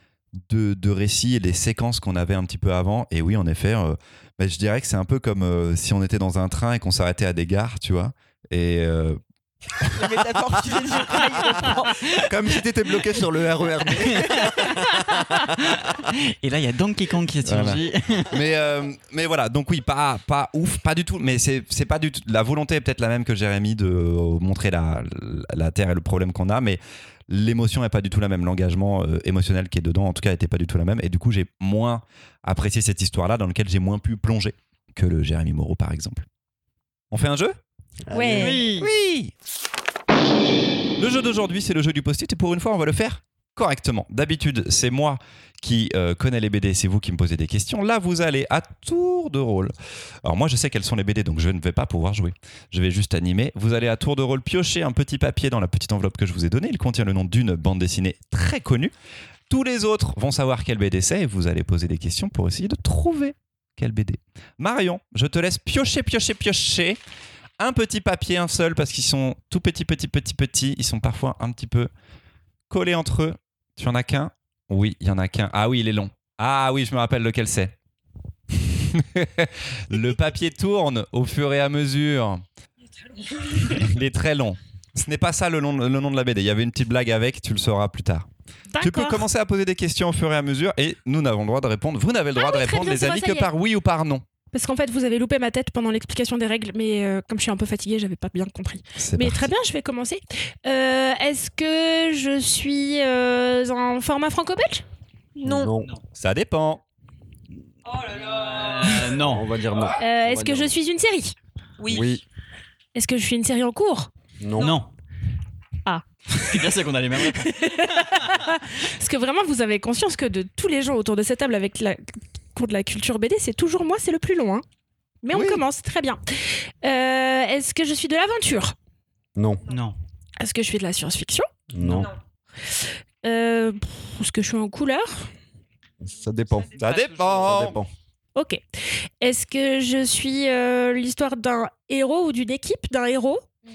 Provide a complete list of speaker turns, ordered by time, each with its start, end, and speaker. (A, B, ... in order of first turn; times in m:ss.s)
0:00.5-0:09.2 A
0:09.8-0:12.2 B
0:12.2-0:16.0 C
0:13.9-0:18.4 D
0:17.4-0:36.2 A
0:37.1-0:37.6 A
0:38.0-0:38.6 C
0:38.1-0:38.6 B
0:38.3-0:38.9 D
0:38.8-0:39.3 A
0:41.0-0:58.9 A
0:59.5-1:07.0 A
1:07.6-1:11.9 A
1:12.7-1:17.7 A
1:18.8-1:22.4 A
1:23.7-1:28.3 A
1:28.7-1:29.2 E
1:28.8-1:34.2 A
1:32.4-1:33.5 E
1:34.5-1:44.8 E
1:39.0-1:39.5 A
1:45.4-1:45.7 B
1:45.4-1:45.9 C
1:46.1-1:46.8 A
1:48.0-1:49.5 D
1:49.0-1:50.7 C
1:50.0-1:51.3 E
1:51.8-1:52.1 B
1:51.9-1:52.2 C
1:52.9-1:54.1 E
1:54.4-1:54.8 C
1:54.6-1:54.9 D
1:55.8-1:56.7 E
1:56.3-1:58.4 D
1:57.3-2:04.6 E
2:05.2-2:08.7 E
2:05.3-2:05.6 C
2:09.4-2:09.6 C
2:09.7-2:10.0 D
2:10.4-2:11.5 E
2:11.7-2:12.1 C
2:12.7-2:15.3 E
2:16.0-2:16.7 C
2:16.8-2:17.8 A
2:17.4-2:17.9 C
2:18.3-2:23.4 E